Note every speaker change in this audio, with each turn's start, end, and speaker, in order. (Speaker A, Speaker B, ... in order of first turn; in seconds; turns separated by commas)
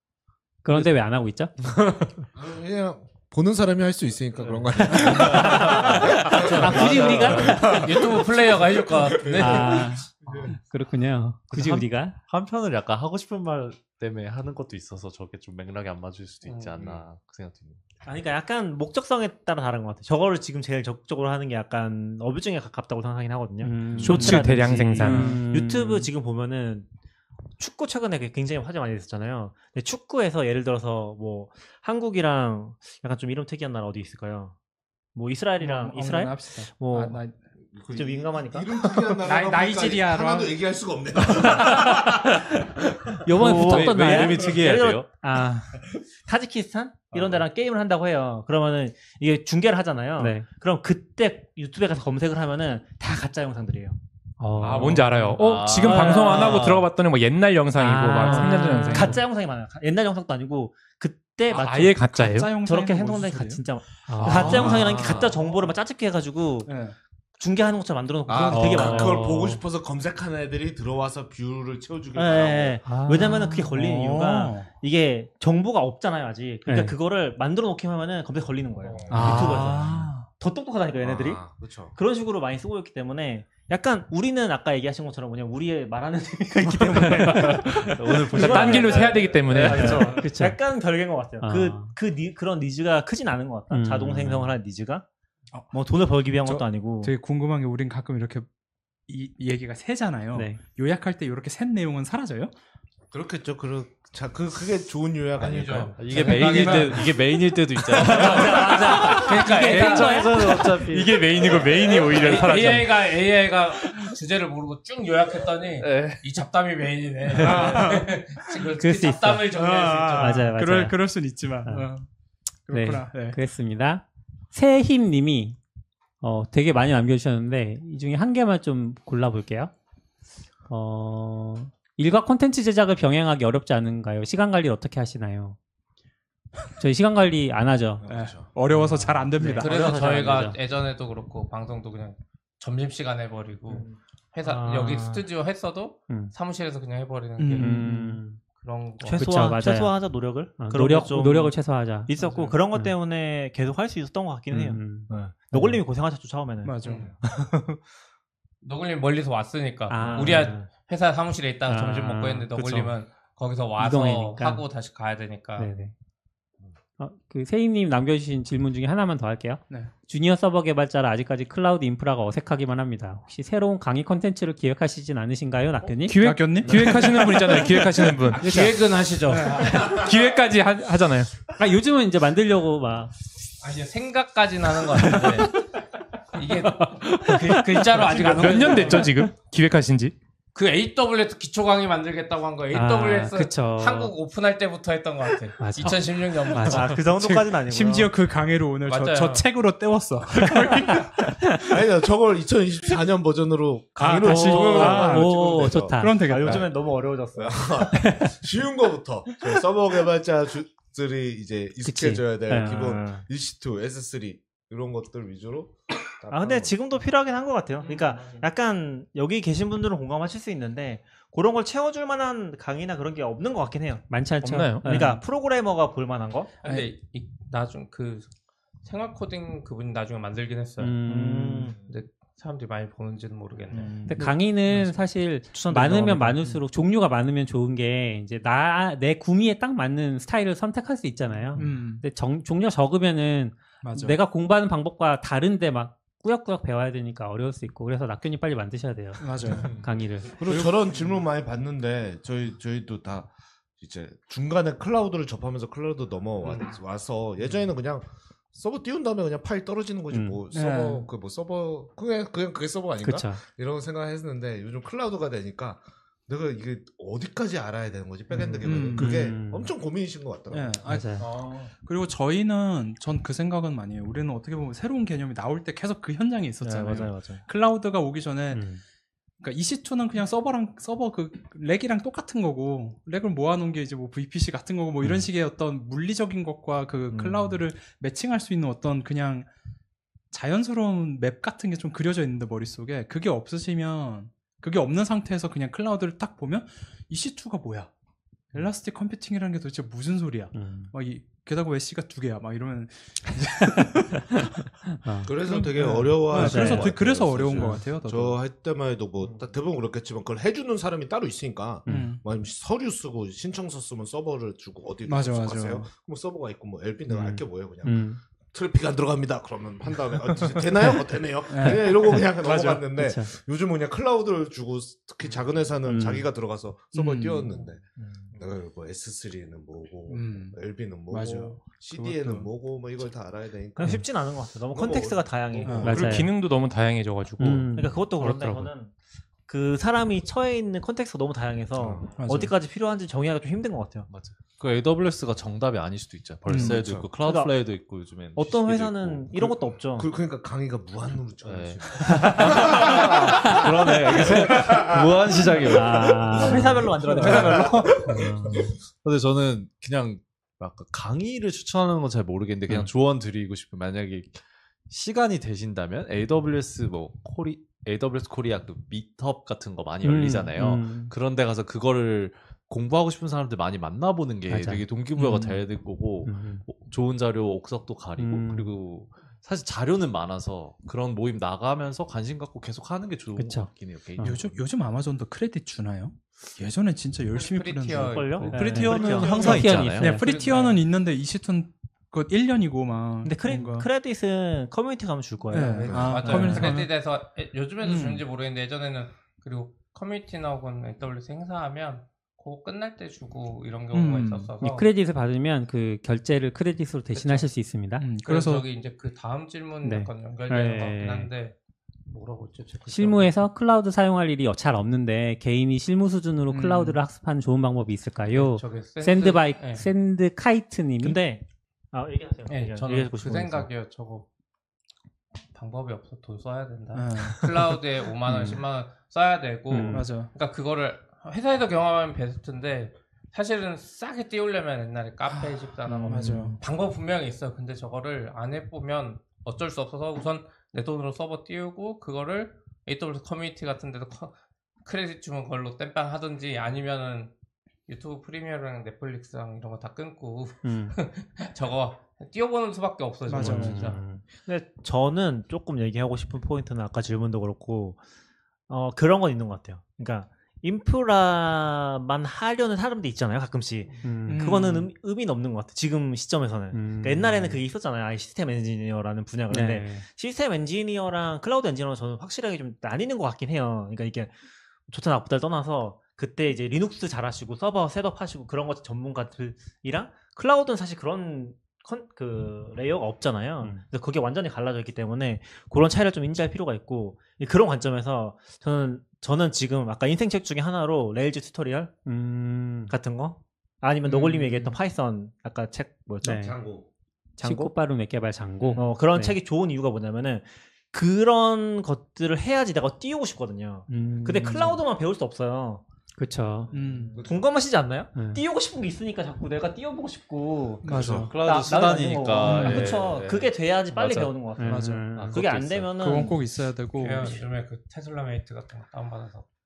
Speaker A: 0.6-1.5, Speaker B: 2.3-10.6, Speaker C: 4.4-7.8, Speaker A: 5.0-7.9, Speaker D: 7.4-9.9, Speaker A: 9.3-12.2, Speaker C: 11.5-17.8, Speaker E: 18.0-26.9, Speaker A: 23.6-26.1, Speaker F: 24.0-25.4, Speaker G: 25.0-25.4, Speaker E: 27.6-34.6, Speaker E: 35.1-37.2, Speaker G: 35.6-37.4, Speaker B: 37.7-42.5, Speaker E: 37.9-38.8, Speaker G: 39.2-40.6, Speaker A: 43.2-44.5, Speaker C: 43.4-45.1, Speaker E: 43.4-45.1, Speaker A: 45.2-45.7, Speaker E: 46.2-54.0, Speaker C: 47.1-47.4, Speaker A: 50.2-50.5, Speaker A: 54.4-55.4, Speaker F: 54.6-59.2, Speaker C: 55.4-56.9, Speaker E: 55.8-56.7, Speaker A: 57.8-59.2, Speaker E: 58.2-66.7, Speaker F: 61.5-62.6, Speaker G: 62.0-63.6, Speaker A: 64.1-64.8, Speaker F: 64.2-65.0, Speaker C: 64.6-65.3, Speaker B: 64.6-65.4, Speaker G: 66.7-67.0, Speaker E: 67.4-69.3, Speaker B: 68.3-72.8, Speaker A: 68.5-69.6, Speaker E: 72.1-95.0, Speaker A: 72.8-73.7, Speaker G: 73.5-74.7, Speaker A: 76.7-77.0, Speaker B: 78.8-79.5, Speaker G: 79.1-80.3, Speaker B: 81.0-82.0, Speaker F: 87.3-87.8, Speaker C: 87.4-90.3, Speaker F: 88.3-90.2, Speaker A: 90.0-90.6, Speaker A: 91.4-91.9, Speaker A: 93.7-94.5, Speaker E: 95.7-97.1, Speaker G: 96.4-98.5, Speaker G: 99.1-102.5, Speaker A: 100.3-100.6, Speaker B: 103.1-106.0, Speaker D: 105.4-107.2, Speaker C: 106.0-112.9, Speaker G: 106.2-107.0, Speaker D: 108.0-110.6, Speaker E: 108.1-110.3, Speaker A: 108.2-110.6, Speaker F: 111.0-112.9, Speaker D: 111.4-120.5, Speaker C: 115.8-116.3, Speaker G: 117.3-118.5, Speaker A: 118.8-119.5, Speaker G: 119.5-122.1, Speaker A: 120.2-121.0, Speaker A: 121.7-121.9, Speaker G: 122.7-123.4, Speaker A: 122.7-125.6, Speaker A: 126.2-129.7, Speaker A: 130.7-135.6, Speaker A: 136.8-138.1, Speaker B: 138.0-138.5, Speaker G: 138.1-140.0, Speaker A: 138.7-140.6, Speaker D: 139.6-147.9, Speaker E: 143.7-145.3, Speaker G: 147.4-148.2, Speaker A: 147.6-148.4, Speaker D: 148.4-149.4, Speaker E: 149.0-157.5, Speaker A: 149.1-150.0, Speaker A: 150.6-152.1, Speaker G: 152.2-152.6, Speaker A: 154.5-155.8, Speaker G: 156.6-157.1, Speaker D: 156.8-157.1, Speaker D: 158.6-165.7, Speaker A: 159.9-160.6, Speaker E: 160.0-160.7, Speaker A: 161.7-162.9, Speaker A: 163.8-164.7, Speaker A: 165.6-165.9, Speaker A: 167.0-176.2, Speaker F: 176.0-178.7, Speaker G: 176.2-179.9, Speaker D: 178.3-179.9, Speaker F: 179.7-181.3, Speaker A: 181.5-183.1, Speaker D: 183.6-185.7, Speaker G: 185.1-185.4, Speaker D: 186.3-189.1, Speaker A: 187.2-187.6, Speaker G: 188.1-189.0, Speaker F: 188.2-190.1, Speaker D: 190.6-197.0, Speaker A: 192.7-194.1, Speaker A: 195.6-196.9, Speaker E: 196.7-198.1, Speaker G: 197.1-201.8, Speaker D: 198.9-199.5, Speaker B: 201.7-205.9, Speaker G: 204.0-206.7, Speaker A: 204.2-206.6, Speaker E: 206.3-207.9, Speaker B: 207.3-216.8, Speaker A: 207.9-208.3, Speaker A: 211.8-212.9, Speaker E: 212.6-213.2, Speaker E: 216.3-224.2, Speaker D: 217.8-218.4, Speaker A: 224.1-225.2, Speaker F: 224.4-224.9, Speaker E: 224.8-226.5, Speaker D: 226.6-228.3, Speaker G: 226.7-226.9, Speaker D: 228.8-231.0, Speaker A: 230.8-231.7, Speaker E: 231.1-231.8, Speaker D: 231.8-234.1, Speaker G: 233.7-235.0, Speaker A: 234.1-250.4, Speaker E: 235.5-236.4, Speaker G: 241.5-242.0, Speaker G: 243.8-244.2, Speaker G: 249.2-249.8, Speaker C: 249.5-249.9, Speaker B: 250.3-270.8, Speaker A: 260.1-260.4, Speaker G: 260.5-261.1, Speaker A: 263.0-263.4, Speaker G: 268.6-269.3, Speaker A: 268.8-269.7, Speaker G: 270.5-278.7, Speaker A: 270.9-271.3, Speaker E: 276.6-277.4, Speaker A: 278.5-278.8, Speaker G: 279.4-289.5, Speaker E: 287.1-287.6, Speaker G: 290.3-297.9, Speaker G: 298.5-304.6, Speaker A: 300.5-300.9, Speaker A: 304.9-305.3, Speaker B: 305.3-327.8, Speaker G: 305.3-308.4, Speaker A: 306.3-306.9, Speaker A: 311.9-312.2, Speaker G: 311.9-312.2, Speaker G: 315.1-315.9, Speaker A: 317.1-318.2, Speaker G: 321.5-322.8, Speaker A: 321.6-322.3, Speaker A: 322.9-323.3, Speaker A: 325.9-326.3, Speaker G: 326.9-327.5, Speaker E: 328.0-328.3, Speaker B: 328.3-334.1, Speaker G: 330.1-330.6, Speaker G: 331.1-332.5, Speaker E: 333.8-336.1, Speaker B: 334.7-336.2, Speaker G: 335.7-336.1, Speaker A: 335.8-336.3, Speaker F: 335.8-338.7, Speaker A: 337.4-338.0, Speaker E: 337.8-338.9, Speaker E: 339.5-344.1, Speaker B: 341.8-342.1, Speaker G: 342.1-342.6, Speaker C: 344.1-349.5, Speaker G: 346.5-346.8, Speaker B: 346.6-347.1, Speaker E: 347.2-347.6, Speaker E: 348.4-350.1, Speaker B: 349.4-355.3, Speaker C: 351.4-384.6, Speaker E: 352.1-352.7, Speaker A: 355.7-356.8, Speaker E: 355.8-358.2, Speaker B: 357.1-358.6, Speaker A: 370.0-371.1, Speaker A: 374.5-374.9, Speaker G: 375.2-375.6, Speaker A: 376.2-376.7, Speaker A: 378.2-378.7, Speaker A: 383.4-384.4, Speaker G: 384.2-393.9, Speaker D: 387.3-390.8, Speaker E: 387.9-389.5, Speaker C: 388.4-390.1, Speaker A: 389.0-390.2, Speaker E: 393.2-396.6, Speaker G: 395.5-396.9, Speaker D: 395.6-404.9, Speaker B: 395.9-396.2, Speaker A: 396.3-396.7, Speaker G: 397.8-398.2, Speaker G: 403.9-404.5, Speaker A: 404.6-408.1, Speaker D: 407.1-407.5, Speaker G: 408.0-408.6, Speaker D: 408.2-413.5, Speaker A: 409.8-411.3, Speaker A: 412.9-421.2, Speaker G: 416.5-417.0, Speaker D: 418.3-419.9, Speaker E: 421.0-423.7, Speaker D: 422.5-424.3, Speaker D: 425.5-447.3, Speaker G: 426.9-427.8, Speaker A: 428.2-428.6, Speaker A: 429.7-430.1, Speaker G: 429.9-430.3, Speaker E: 435.9-436.6, Speaker G: 436.1-436.6, Speaker D: 447.9-454.0, Speaker A: 450.6-451.0, Speaker G: 453.3-453.9, Speaker A: 453.4-454.2, Speaker E: 454.5-458.0, Speaker E: 458.7-474.4, Speaker A: 464.0-464.6, Speaker G: 464.3-464.9, Speaker A: 466.7-467.6, Speaker A: 469.5-470.1, Speaker E: 474.9-491.9, Speaker A: 492.1-492.9, Speaker E: 492.9-496.5, Speaker G: 494.1-494.8, Speaker A: 496.2-496.6, Speaker B: 496.3-496.9, Speaker E: 497.4-497.7, Speaker A: 497.4-499.4, Speaker G: 498.6-498.9, Speaker E: 498.8-505.8, Speaker A: 503.9-504.8, Speaker A: 506.2-506.7, Speaker G: 506.7-507.2, Speaker E: 506.7-516.4, Speaker B: 507.1-507.4, Speaker A: 508.1-508.4, Speaker G: 510.8-511.4, Speaker B: 510.9-511.3, Speaker C: 511.1-514.5, Speaker G: 512.5-512.8, Speaker A: 512.5-512.9, Speaker A: 514.6-515.4, Speaker G: 514.6-515.1, Speaker C: 515.1-516.0, Speaker G: 516.0-517.4, Speaker D: 517.0-519.5